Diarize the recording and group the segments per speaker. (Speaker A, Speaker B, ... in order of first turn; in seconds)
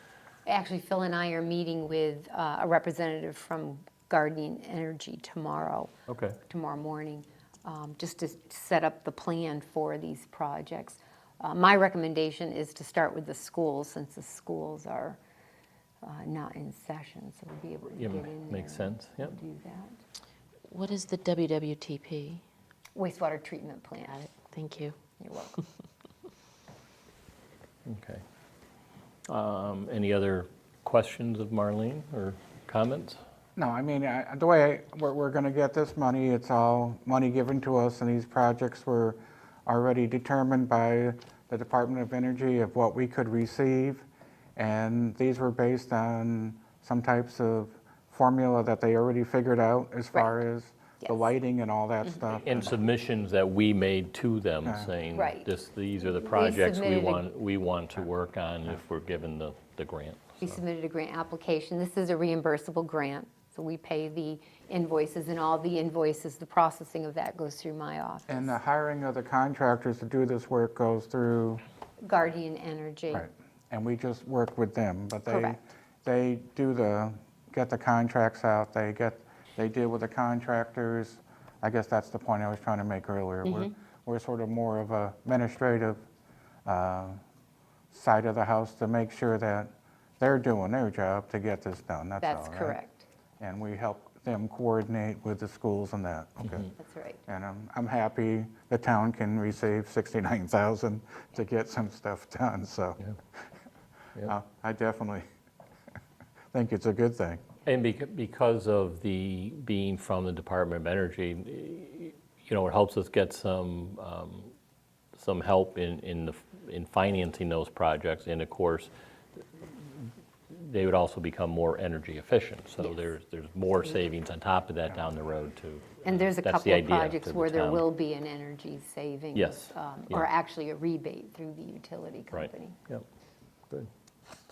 Speaker A: 0.5-5.9, 6.5-15.2, 16.0-20.0, 22.9-24.3, 25.2-25.6, 51.0-51.3, 55.1-55.5, 56.2-57.3, 60.4-68.6, 72.0-73.3, 75.3-75.6, 92.2-93.1, 96.8-97.2, 122.8-123.1, 126.0-132.8
Speaker B: 6.1-6.4, 18.0-19.4, 27.9-28.2, 29.3-33.2, 52.4-60.6, 107.7-114.5, 115.2-118.9, 119.6-127.9, 129.3-130.3, 132.3-133.1
Speaker C: 20.7-22.4, 24.2-25.0
Speaker D: 33.6-52.8, 54.6-54.9, 68.3-71.6, 73.1-86.0, 86.7-87.2, 87.9-92.8, 93.4-96.7, 97.3-103.0, 104.2-105.2, 106.5-107.4